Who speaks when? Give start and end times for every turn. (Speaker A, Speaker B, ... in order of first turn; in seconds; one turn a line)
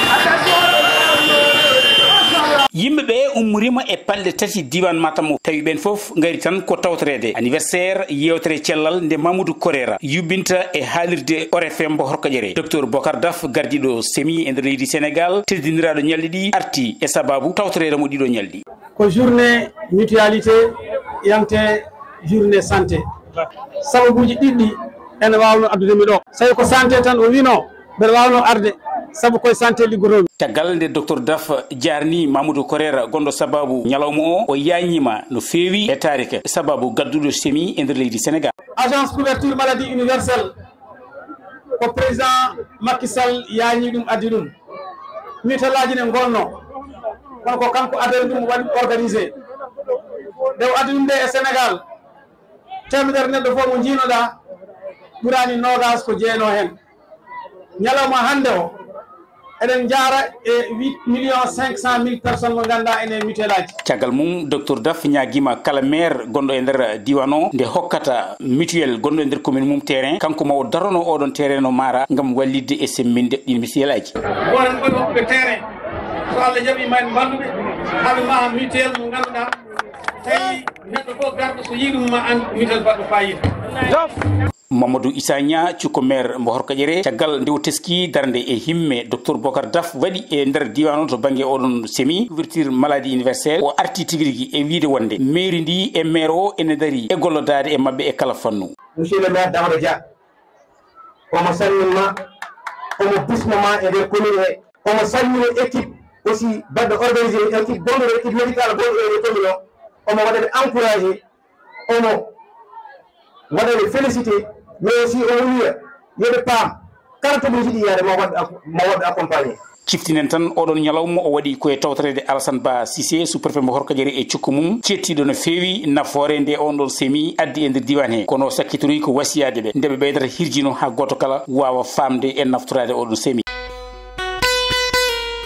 Speaker A: 2.7-18.6
Speaker B: 19.0-20.7
Speaker B: 21.2-23.0
Speaker B: 23.9-30.3
Speaker A: 30.4-38.5
Speaker B: 38.8-40.5
Speaker B: 41.8-44.5
Speaker B: 45.4-46.6
Speaker B: 47.4-49.3
Speaker B: 50.6-51.8
Speaker B: 52.9-54.3
Speaker B: 55.2-56.8
Speaker B: 57.8-58.7
Speaker B: 59.6-63.7
Speaker A: 63.9-74.2
Speaker B: 74.4-75.7
Speaker B: 76.3-79.5
Speaker B: 80.2-83.5
Speaker A: 84.7-98.7
Speaker C: 99.0-100.0
Speaker C: 101.3-102.1
Speaker C: 103.0-111.2
Speaker C: 111.9-112.3
Speaker C: 113.5-119.6
Speaker A: 119.9-133.4